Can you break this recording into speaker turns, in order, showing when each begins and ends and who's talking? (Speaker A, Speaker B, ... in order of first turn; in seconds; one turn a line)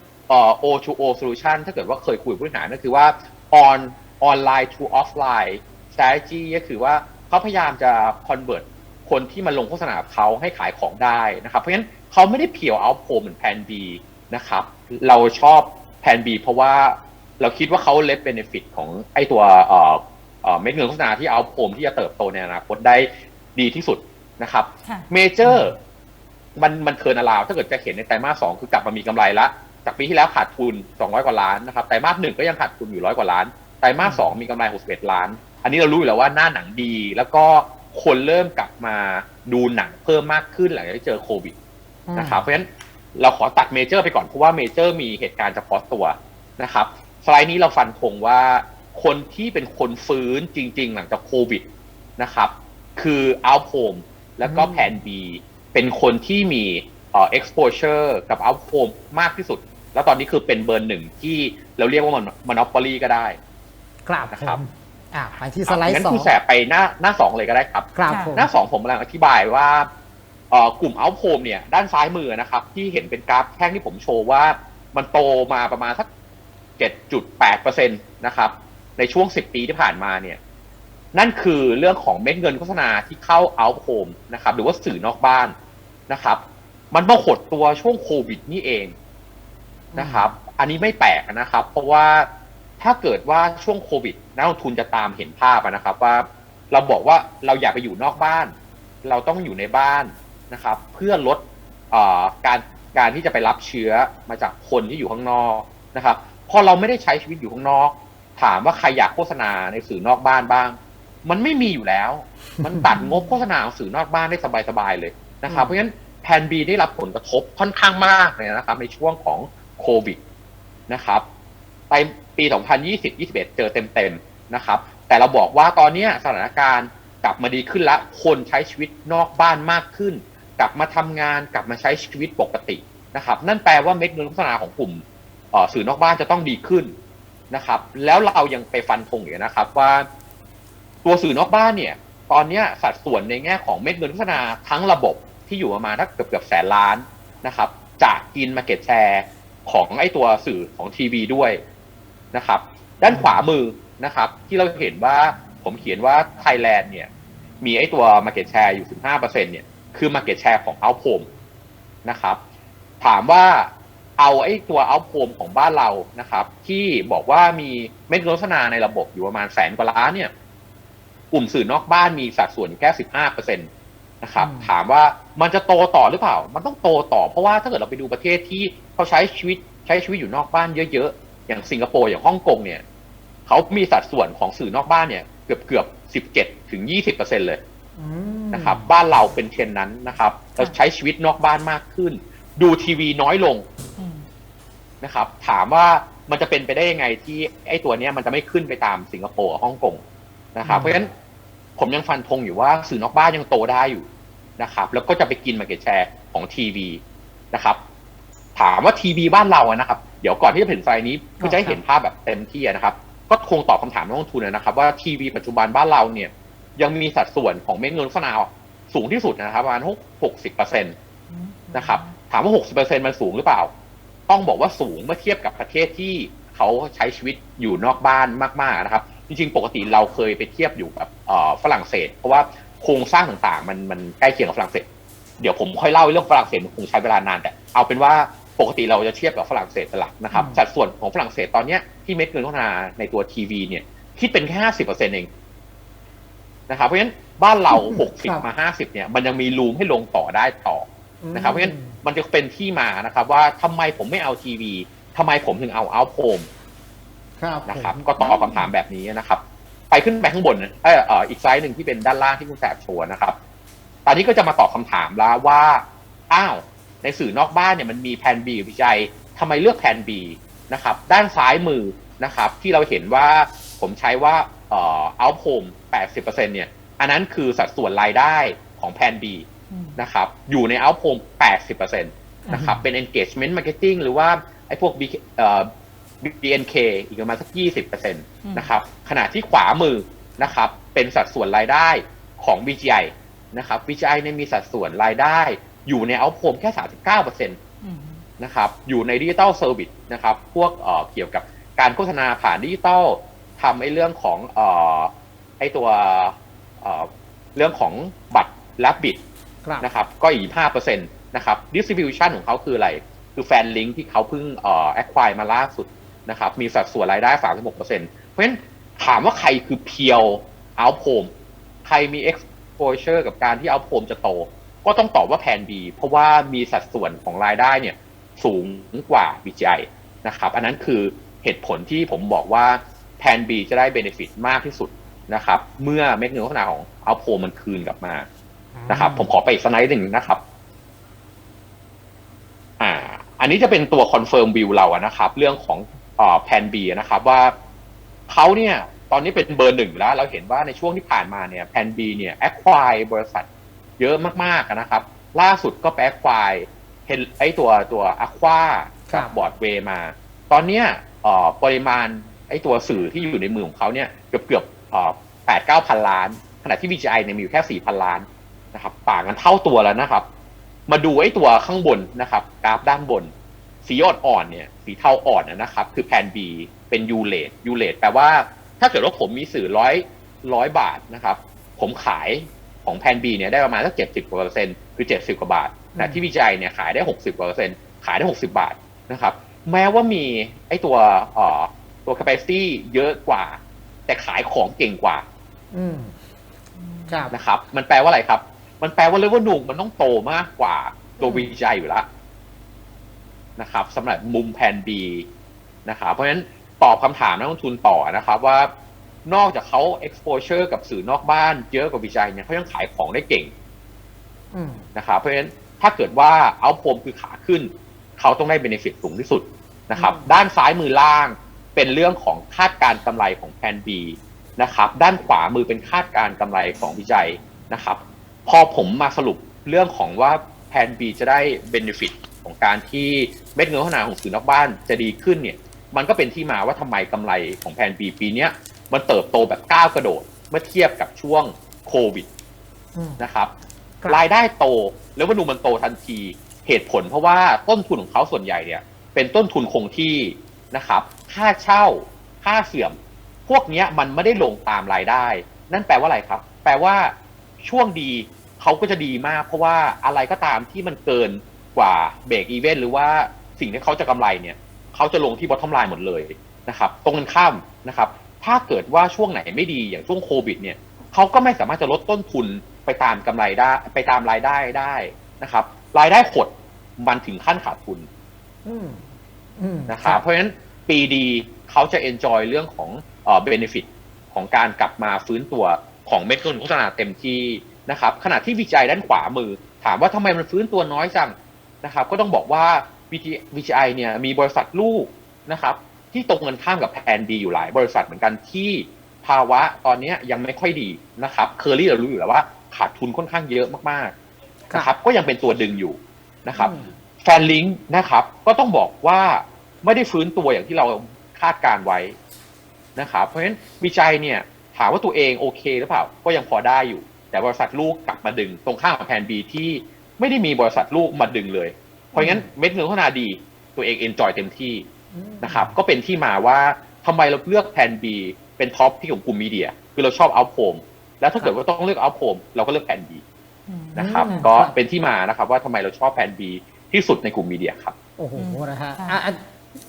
Speaker A: 0.3-25.8
Speaker B: 25.4-25.7
Speaker A: 26.6-41.5
Speaker B: 34.0-34.3
Speaker B: 42.1-42.5
Speaker A: 42.1-51.6
Speaker A: 52.2-63.4
Speaker B: 54.4-55.0
Speaker B: 64.0-66.3
Speaker A: 64.3-64.6
Speaker A: 65.7-69.9
Speaker B: 68.0-68.5
Speaker C: 68.1-68.3
Speaker A: 70.5-76.1
Speaker A: 76.8-80.4
Speaker A: 81.1-85.5
Speaker A: 86.1-86.4
Speaker A: 86.9-88.9
Speaker B: 89.9-90.3
Speaker A: 90.0-92.3
Speaker A: 92.8-120.2
Speaker B: 115.5-115.8
Speaker A: 120.9-121.2
Speaker A: 121.9-136.9
Speaker A: 137.5-140.1
Speaker A: 141.0-151.6
Speaker A: 152.3-157.1
Speaker B: 153.1-153.4
Speaker A: 157.6-161.3
Speaker A: 162.0-162.4
Speaker A: 163.0-170.3
Speaker A: 171.3-173.7
Speaker A: 174.2-182.8
Speaker B: 174.4-174.7
Speaker A: 183.5-187.6
Speaker B: 188.0-188.8
Speaker A: 188.5-193.7
Speaker C: 194.0-194.2
Speaker A: 195.0-200.0
Speaker A: 200.5-201.1
Speaker B: 200.6-201.0
Speaker A: 201.8-204.1
Speaker A: 204.6-207.8
Speaker A: 208.6-220.9
Speaker B: 211.4-211.8
Speaker C: 221.3-222.2
Speaker A: 221.7-223.7
Speaker A: 224.3-234.8
Speaker A: 235.4-245.3
Speaker B: 240.3-240.6
Speaker A: 246.7-256.5
Speaker B: 247.7-248.4
Speaker B: 251.2-252.0
Speaker B: 257.4-258.7
Speaker A: 257.6-263.4
Speaker A: 264.1-285.7
Speaker C: 279.7-280.0
Speaker B: 282.4-282.8
Speaker A: 286.2-297.6
Speaker C: 288.4-288.7
Speaker C: 297.8-298.2
Speaker A: 298.4-309.2
Speaker A: 309.8-321.3
Speaker A: 321.8-338.3
Speaker B: 338.8-339.3
Speaker A: 338.9-340.4
Speaker A: 342.8-347.5
Speaker A: 348.3-353.4
Speaker A: 354.0-370.2
Speaker B: 359.1-359.3
Speaker A: 370.9-373.3
Speaker A: 373.8-395.2
Speaker B: 385.9-386.2
Speaker B: 395.7-396.1
Speaker C: 396.8-397.3
Speaker B: 397.1-397.3
Speaker A: 397.3-402.1
Speaker B: 401.2-401.5
Speaker A: 403.6-405.3
Speaker A: 405.9-408.7
Speaker A: 409.2-413.5
Speaker B: 414.5-414.9
Speaker A: 414.9-442.3
Speaker B: 419.9-420.4
Speaker A: 443.2-443.5
Speaker A: 444.1-478.1
Speaker B: 478.6-479.0
Speaker B: 479.6-480.2
Speaker A: 479.9-504.1
Speaker A: 504.7-512.2
Speaker B: 506.6-506.9
Speaker A: 513.0-524.9
Speaker B: 522.1-522.5
Speaker B: 525.1-525.7
Speaker A: 525.4-533.2
Speaker C: 533.7-534.5
Speaker A: 533.9-537.9
Speaker B: 534.0-534.8
Speaker B: 538.2-539.4
Speaker C: 538.4-539.2